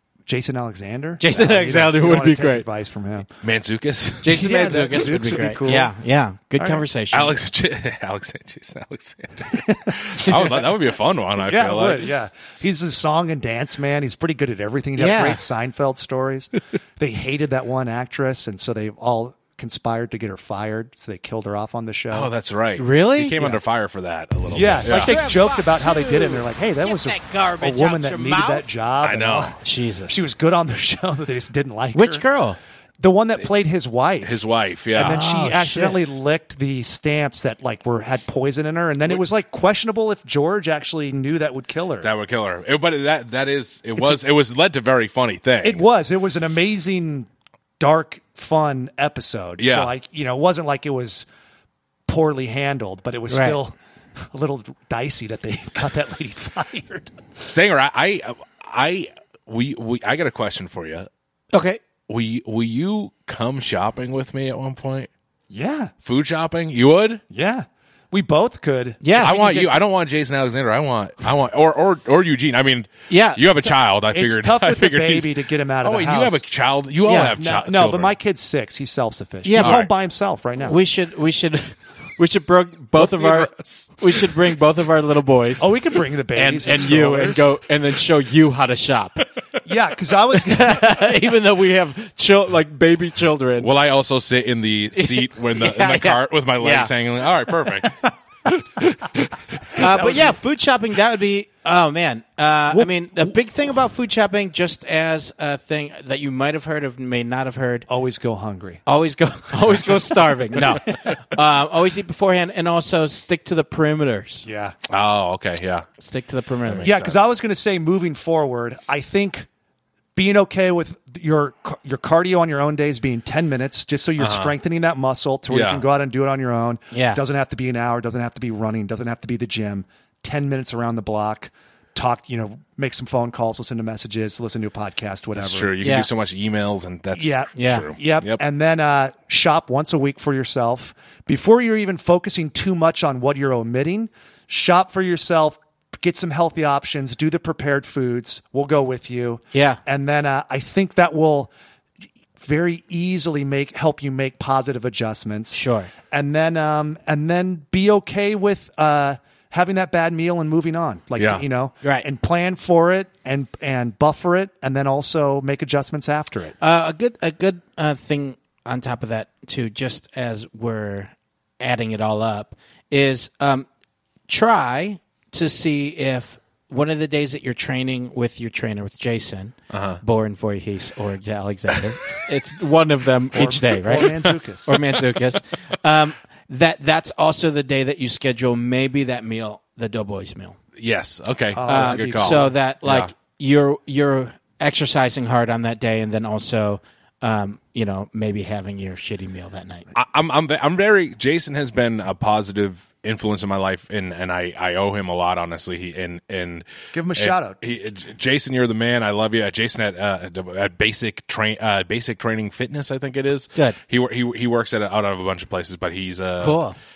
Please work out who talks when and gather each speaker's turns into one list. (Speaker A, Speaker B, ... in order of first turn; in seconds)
Speaker A: 0.2-3.3, 4.3-5.9, 10.2-10.7, 11.4-22.3, 24.5-32.2, 33.0-34.3, 34.9-42.1, 45.6-47.3, 47.8-51.3, 52.1-57.2, 65.5-65.9, 67.3-69.7, 74.1-76.4, 77.1-80.8, 85.6-87.5, 89.6-90.8, 99.8-100.3, 102.7-103.4, 107.9-108.8, 114.4-114.7, 116.8-119.5, 120.1-135.7, 137.1-151.5, 152.4-166.5, 183.3-184.7, 191.5-192.5, 206.9-207.6
Speaker B: 1.2-2.6, 4.2-7.4, 15.0-15.4, 22.8-23.6, 24.9-28.7, 29.6-30.2, 31.9-32.6, 35.0-36.0, 53.3-53.6, 61.5-61.8, 69.0-69.7, 73.1-73.4, 77.0-77.3, 79.4-79.8, 80.6-85.7, 86.3-89.2, 90.3-93.7, 94.9-96.9, 99.8-107.9, 108.8-114.4, 116.0-116.9, 126.9-127.2, 135.8-136.1, 137.6-137.8, 149.5-149.8, 155.5-155.9, 166.6-173.7, 174.3-190.6, 191.7-199.9, 216.4-216.8
Speaker C: 3.4-4.5, 7.1-12.1, 22.1-25.1, 29.0-29.6, 34.2-35.2, 42.0-45.8, 49.6-49.9, 57.4-61.1, 62.1-65.1, 66.0-67.2, 69.2-78.1, 79.6-79.9, 83.0-84.4, 93.6-99.8, 114.9-115.9, 116.7-117.2, 124.2-124.5, 125.5-125.8, 135.4-138.4, 161.2-161.4, 179.7-180.0, 190.8-193.1, 199.9-216.6